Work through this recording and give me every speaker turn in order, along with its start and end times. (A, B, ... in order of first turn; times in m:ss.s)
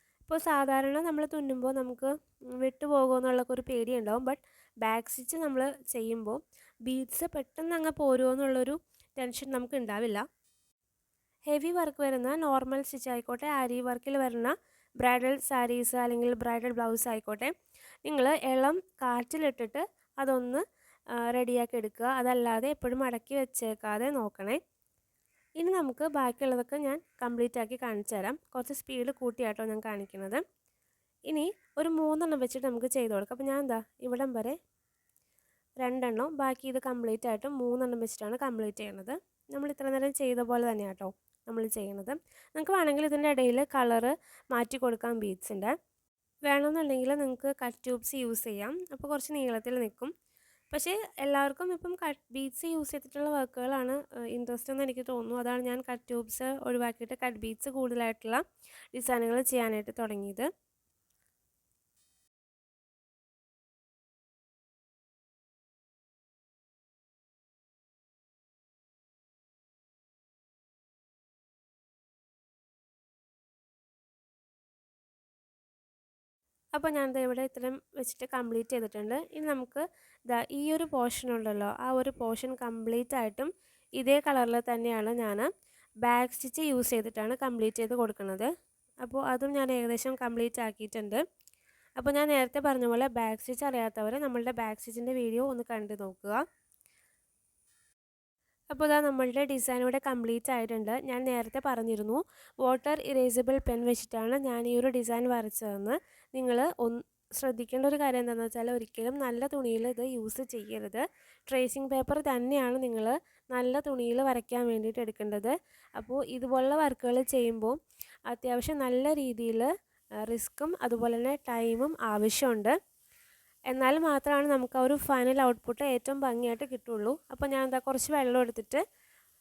0:00.2-0:10.2 A
0:11.5-0:17.5 A
0:18.0-0:20.6 A
0:21.3-0:24.6 A
0:25.6-0:30.4 A
0:31.3-0:34.6 A
0:35.8-0:45.7 A
0:46.5-0:50.1 A
0:50.7-1:00.5 A
1:16.8-1:25.5 A
1:26.0-1:28.5 A
1:29.0-1:31.2 A
1:32.0-1:36.4 A
1:38.7-1:57.8 A
1:58.3-1:59.7 A
2:00.2-2:02.8 A
2:03.7-2:08.8 A